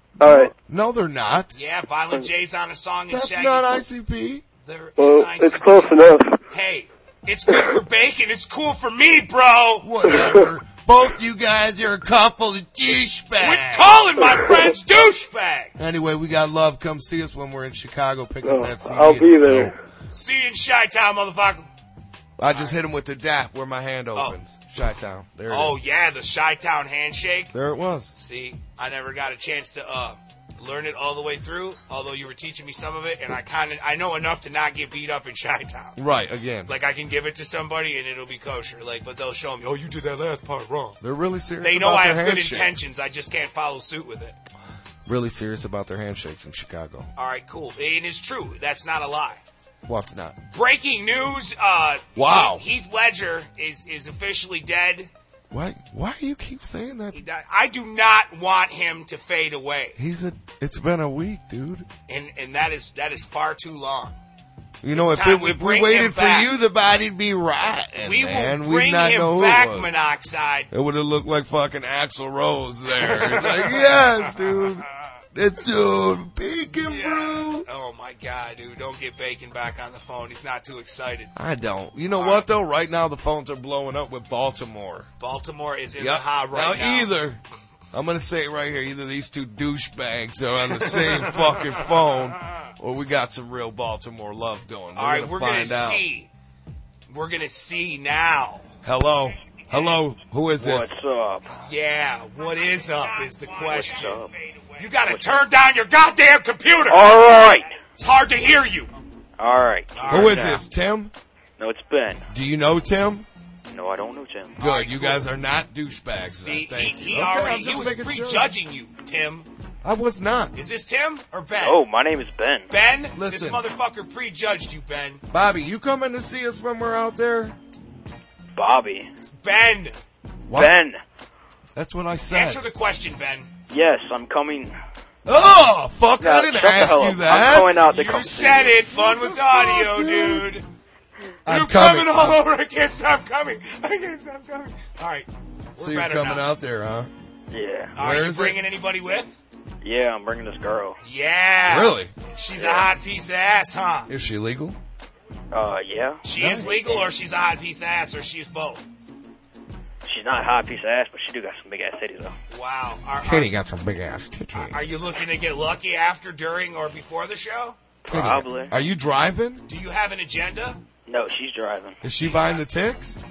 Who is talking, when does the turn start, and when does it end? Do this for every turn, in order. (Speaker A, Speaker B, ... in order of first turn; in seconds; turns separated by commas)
Speaker A: 0.2-1.5, Speaker B: 0.2-0.5, Speaker C: 1.5-3.8, Speaker A: 3.1-4.4, Speaker C: 4.6-6.0, Speaker B: 5.0-6.4, Speaker C: 6.5-10.1, Speaker A: 9.8-14.0, Speaker B: 10.1-10.5, Speaker C: 13.4-15.8, Speaker A: 15.8-19.7, Speaker B: 18.4-19.7, Speaker C: 20.1-21.7, Speaker A: 22.4-25.8, Speaker C: 22.5-22.8, Speaker C: 25.5-27.5, Speaker A: 27.5-28.1, Speaker C: 28.1-36.0, Speaker A: 36.0-36.7, Speaker C: 36.6-40.9, Speaker A: 41.0-42.9, Speaker C: 41.6-44.4, Speaker A: 45.0-47.1, Speaker C: 47.1-49.4, Speaker A: 49.8-50.4, Speaker C: 50.5-55.1, Speaker A: 52.1-52.6, Speaker A: 55.5-57.2, Speaker C: 57.1-60.0, Speaker A: 60.0-61.9, Speaker C: 62.1-64.2, Speaker A: 64.8-69.9, Speaker C: 64.9-66.5, Speaker C: 68.0-70.7, Speaker A: 70.7-77.7, Speaker C: 72.9-75.1, Speaker C: 76.8-81.3, Speaker A: 81.3-85.1, Speaker C: 82.1-82.4, Speaker C: 85.2-87.1, Speaker A: 86.0-87.4, Speaker A: 87.9-96.0, Speaker C: 90.8-92.6, Speaker C: 95.0-96.3, Speaker C: 97.1-98.6, Speaker A: 98.8-101.0, Speaker D: 100.6-101.5, Speaker C: 101.6-107.1, Speaker D: 103.5-104.3, Speaker D: 106.9-107.7, Speaker C: 108.0-108.9, Speaker D: 109.4-110.6, Speaker C: 109.9-110.6, Speaker A: 110.1-111.1, Speaker D: 111.6-112.2, Speaker A: 112.3-113.2, Speaker D: 113.7-114.5, Speaker C: 114.6-115.2, Speaker A: 114.6-118.5, Speaker C: 116.3-119.5, Speaker A: 119.8-120.5, Speaker C: 120.5-121.8, Speaker D: 121.6-122.7, Speaker C: 122.7-125.2, Speaker A: 123.1-123.6, Speaker A: 125.3-127.5, Speaker D: 128.6-129.1, Speaker C: 129.3-129.9, Speaker A: 130.5-130.8, Speaker D: 130.5-131.0, Speaker A: 131.7-132.6, Speaker C: 132.3-133.5, Speaker D: 133.7-134.7, Speaker A: 135.2-137.8, Speaker D: 136.2-138.8, Speaker C: 137.8-140.7, Speaker A: 138.9-140.5, Speaker A: 141.4-142.4, Speaker C: 141.5-146.5, Speaker A: 145.8-147.1, Speaker D: 147.5-147.9, Speaker C: 147.9-149.4, Speaker A: 148.0-148.6, Speaker D: 149.8-151.0, Speaker C: 151.0-154.1, Speaker A: 151.7-152.1, Speaker D: 152.6-152.9, Speaker A: 154.1-154.8, Speaker D: 155.5-157.1, Speaker C: 156.2-158.9, Speaker A: 156.4-156.7, Speaker D: 160.0-162.3, Speaker C: 162.5-163.5, Speaker A: 163.2-164.9, Speaker C: 164.5-167.8, Speaker D: 168.0-168.7, Speaker A: 168.1-169.6, Speaker C: 169.7-170.8, Speaker D: 171.1-172.0, Speaker A: 172.0-173.2, Speaker C: 172.2-172.6